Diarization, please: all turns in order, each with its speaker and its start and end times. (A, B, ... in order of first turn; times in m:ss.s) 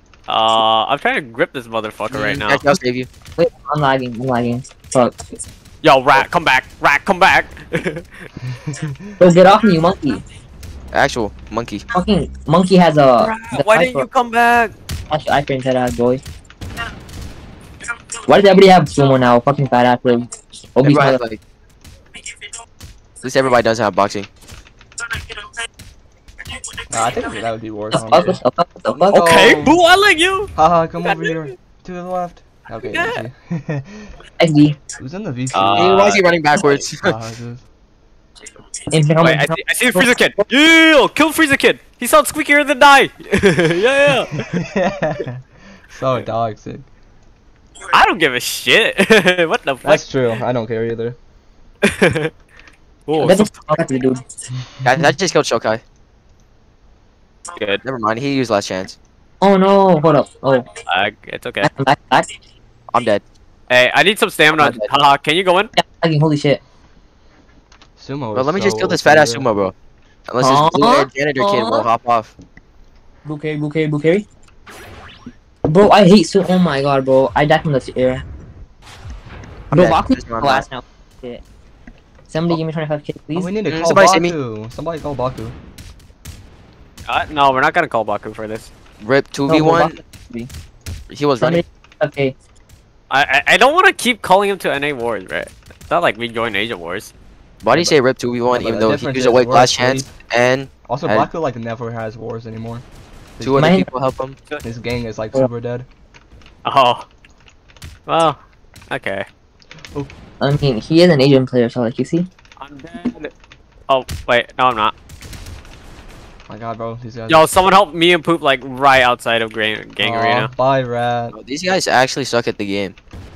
0:00.3-0:02.6 A
0:02.1-0:03.1 B
0:03.4-0:05.1 C
0:05.8-0:08.1 A
0:09.2-0:10.2 C
0:10.9-0:11.9 B
0:11.9-0:14.1 C
0:13.2-0:14.7 A
0:15.1-0:16.2 C
0:18.3-0:21.2 C
0:20.8-0:21.4 B
0:23.2-0:24.3 B
0:26.9-0:28.4 D
0:27.9-0:29.2 C
0:28.9-0:29.8 D
0:29.1-0:30.5 A
0:30.6-0:34.1 D
0:31.0-0:31.5 A
0:32.8-0:33.2 A
0:34.4-0:34.8 C
0:35.0-0:36.1 D
0:35.5-0:36.8 A
0:35.8-0:37.1 B
0:37.0-0:37.6 D
0:38.9-0:40.1 C
0:39.2-0:44.5 A
0:44.4-0:46.9 D
0:47.9-0:50.0 A
0:49.8-0:51.2 D
0:51.8-0:52.3 A
0:53.1-0:53.6 A
0:53.2-0:54.2 C
0:54.8-0:55.8 B
0:57.6-0:57.8 A
0:57.8-0:59.0 B
0:59.4-1:00.7 C
1:00.9-1:01.7 A
1:01.6-1:02.3 C
1:02.9-1:03.2 B
1:03.7-1:05.7 A
1:05.8-1:06.6 C
1:08.0-1:09.5 D
1:08.3-1:09.7 B
1:10.3-1:12.3 B
1:10.4-1:11.9 C
1:13.2-1:14.3 C
1:15.7-1:18.2 C
1:19.7-1:20.6 B
1:19.7-1:21.4 C
1:22.3-1:23.5 C
1:23.3-1:25.6 D
1:23.7-1:24.3 B
1:27.1-1:28.7 A
1:29.0-1:30.0 B
1:29.5-1:30.5 C
1:31.1-1:31.6 B
1:31.4-1:32.3 C
1:33.1-1:37.1 A
1:37.6-1:41.3 B
1:37.7-1:38.0 D
1:38.5-1:40.1 D
1:40.8-1:42.8 D
1:43.4-1:43.7 D
1:43.4-1:44.4 B
1:43.6-1:43.8 C
1:44.6-1:45.9 D
1:46.6-1:47.1 A
1:48.1-1:49.3 A
1:50.4-1:52.3 C
1:52.6-1:53.3 A
1:53.9-1:54.9 A
1:56.5-1:57.5 D
1:57.3-2:00.5 A
2:00.0-2:01.4 D
2:01.3-2:03.0 B